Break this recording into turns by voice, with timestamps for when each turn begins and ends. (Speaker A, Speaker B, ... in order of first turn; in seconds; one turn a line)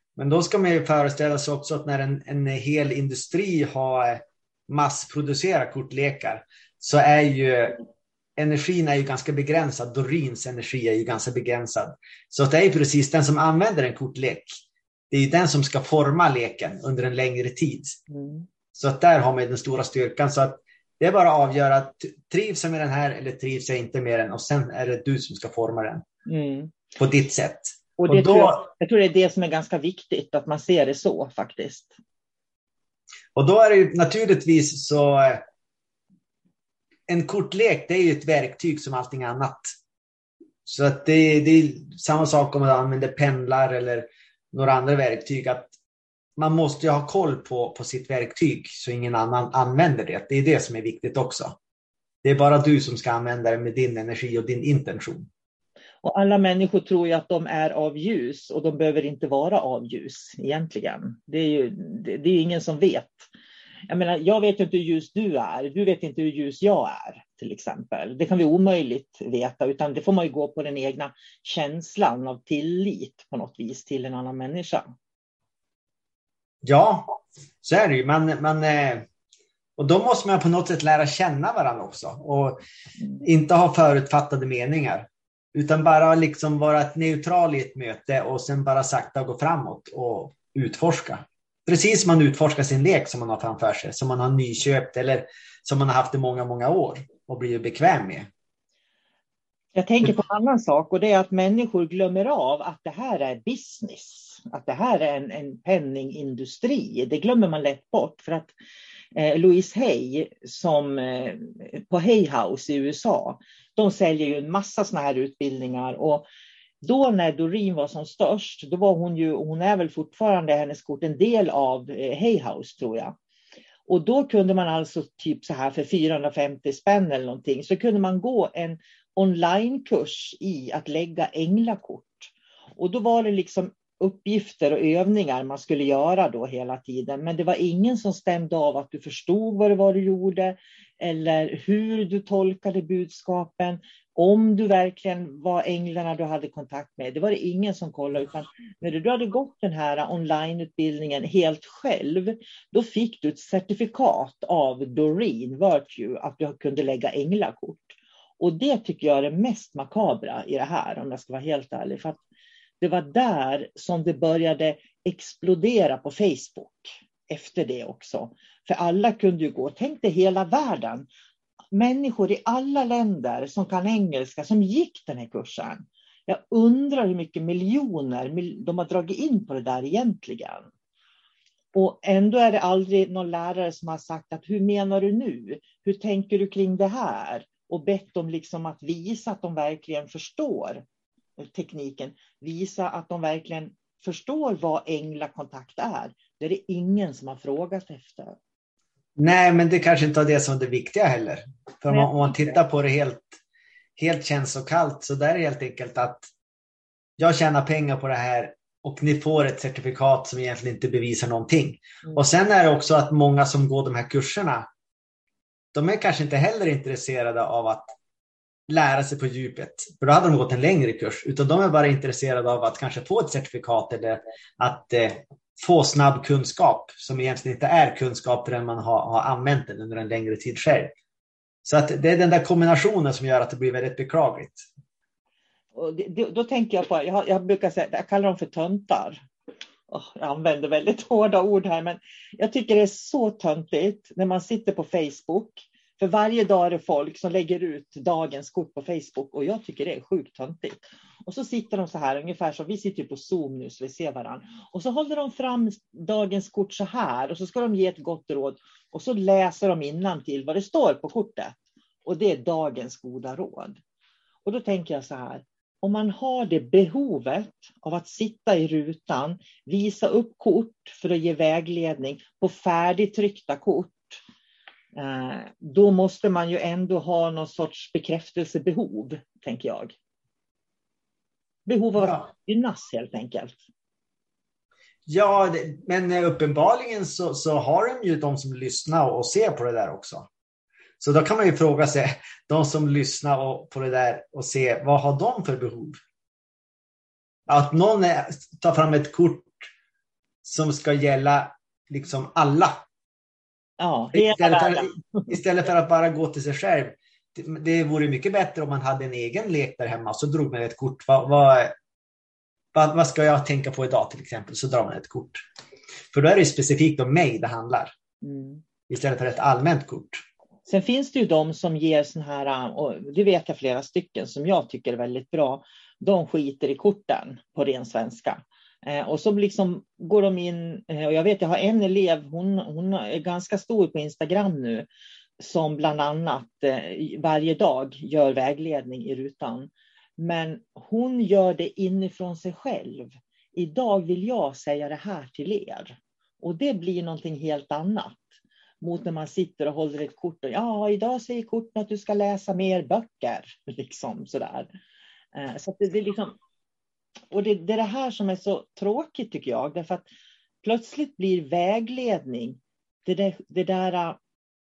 Speaker A: 0.2-7.8
Speaker A: 8.3-14.6
Speaker A: 15.1-18.0
Speaker B: 18.1-18.4
Speaker A: 18.7-26.1
Speaker B: 26.2-26.7
Speaker A: 27.0-28.6
Speaker B: 28.0-31.9
Speaker A: 33.3-35.4
Speaker A: 37.1-39.7
Speaker A: 40.6-45.7
Speaker A: 46.4-51.6
Speaker A: 52.2-55.3
Speaker B: 56.0-63.3
Speaker B: 63.9-74.9
Speaker A: 76.6-79.1
Speaker A: 79.8-82.6
Speaker A: 83.2-98.3
Speaker B: 99.7-108.5
Speaker B: 109.1-116.2
Speaker B: 116.8-123.1
Speaker B: 123.9-162.2
Speaker B: 162.8-171.1
Speaker B: 171.7-180.7
Speaker B: 181.7-190.8
Speaker B: 191.4-198.3
Speaker A: 199.2-203.4
Speaker B: 201.9-202.5
Speaker A: 204.0-206.3
Speaker A: 207.2-214.7
Speaker A: 215.7-217.9
Speaker A: 218.7-230.9
Speaker A: 231.6-234.6
Speaker B: 235.7-239.2
Speaker B: 239.9-263.8
Speaker B: 264.4-274.2
Speaker B: 274.9-279.9
Speaker B: 281.6-283.6
Speaker A: 285.1-290.3
Speaker A: 291.0-296.0
Speaker A: 297.5-299.7
Speaker A: 300.4-302.8
Speaker B: 303.8-305.4
Speaker A: 304.1-311.8
Speaker A: 312.7-315.4
Speaker A: 316.1-317.9
Speaker B: 318.2-318.6
Speaker A: 318.9-320.2
Speaker B: 320.6-334.9
Speaker B: 335.4-348.3
Speaker B: 348.8-354.7
Speaker B: 355.3-356.4
Speaker B: 357.3-360.0
Speaker B: 360.6-364.2